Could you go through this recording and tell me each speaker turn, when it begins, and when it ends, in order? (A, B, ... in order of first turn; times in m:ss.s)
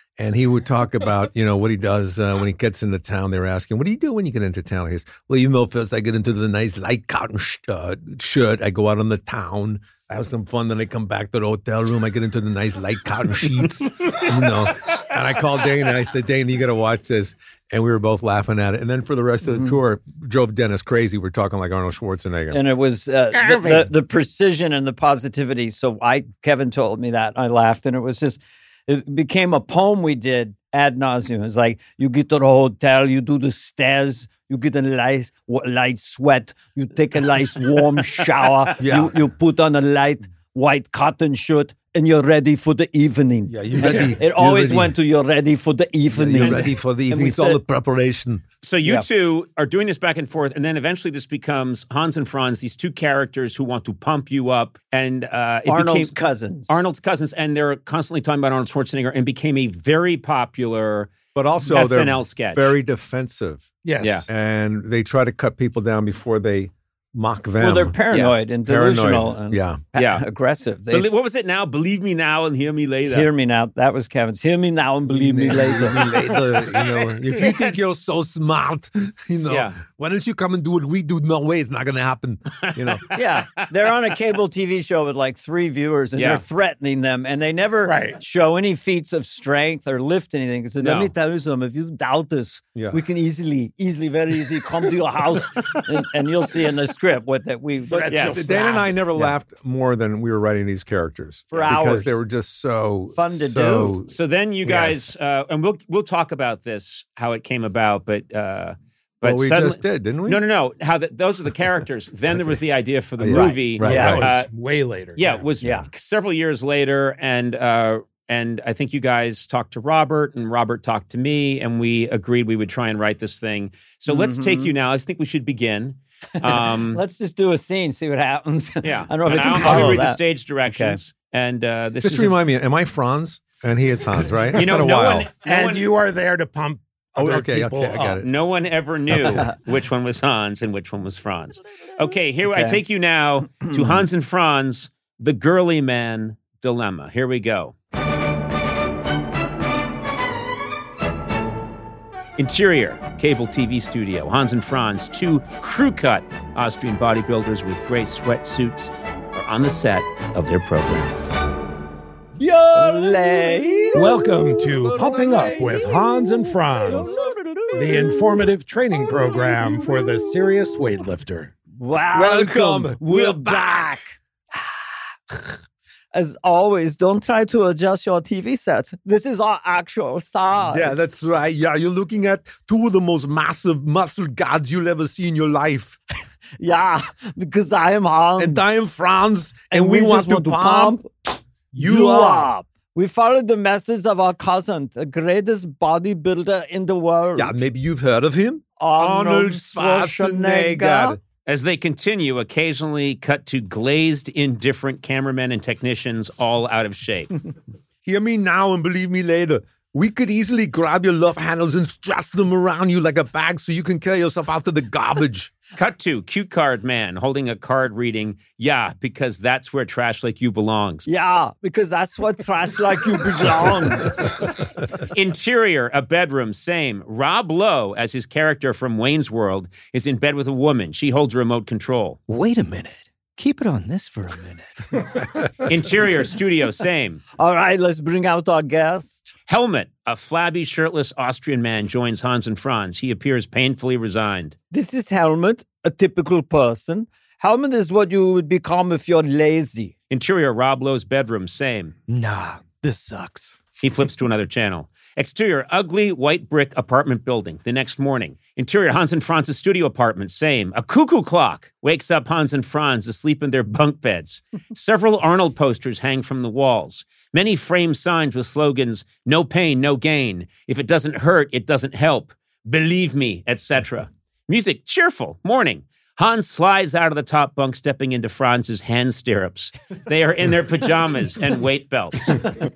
0:00.2-0:22.6 A
0:19.5-0:19.7 B
0:22.5-0:47.6 B
0:38.8-0:39.2 A
0:43.5-0:45.0 A
0:46.2-0:48.4 A
0:46.4-0:46.7 C
0:48.6-0:56.2 C
0:55.7-0:56.8 B
0:56.7-1:02.8 C
1:01.4-1:03.7 A
1:03.8-1:04.3 D
1:04.0-1:04.3 C
1:04.3-1:08.0 A
1:07.6-1:11.1 B
1:08.1-1:08.4 C
1:08.6-1:09.8 A
1:10.0-1:10.2 C
1:10.9-1:13.3 C
1:13.1-1:16.6 B
1:15.1-1:23.0 A
1:19.5-1:19.8 C
1:22.6-1:23.0 C
1:23.1-1:39.3 B
1:26.2-1:26.4 C
1:27.8-1:28.2 D
1:30.8-1:31.1 C
1:37.9-1:38.9 D
1:37.9-1:44.1 A
1:38.1-1:38.4 C
1:41.5-1:42.2 B
1:43.1-1:44.0 B
1:44.1-1:54.5 C
1:44.6-1:45.1 A
1:49.2-1:50.4 A
1:52.3-1:52.6 A
1:53.2-1:54.3 A
1:53.3-1:54.3 B
1:53.8-1:55.5 D
1:55.2-2:07.0 C
2:04.1-2:04.7 B
2:06.4-2:11.0 B
2:08.8-2:12.4 C
2:09.7-2:10.0 A
2:12.0-2:15.3 A
2:14.5-2:15.9 C
2:15.4-2:18.2 D
2:17.2-2:18.3 A
2:18.2-2:27.8 C
2:22.5-2:22.8 B
2:32.4-2:41.2 C
2:42.4-2:50.5 B
2:42.7-2:43.3 A
2:44.0-2:47.1 D
2:47.7-2:51.5 D
2:51.8-2:54.7 B
2:52.1-2:53.9 A
2:56.1-3:01.1 B
3:00.6-3:06.0 A
3:06.6-3:08.6 B
3:08.4-3:11.0 A
3:09.7-3:17.6 B
3:11.7-3:12.5 A
3:17.4-3:21.2 A
3:18.8-3:21.2 B
3:21.5-3:27.3 C
3:28.0-3:35.5 A
3:35.8-3:41.1 C
3:41.1-3:44.4 B
3:45.0-3:52.2 C
3:52.3-3:55.1 E
3:55.6-3:57.2 C
3:57.4-3:59.3 B
3:59.5-4:04.6 C
4:04.7-4:09.9 B
4:10.1-4:12.0 C
4:12.1-4:13.6 E
4:13.8-4:42.5 C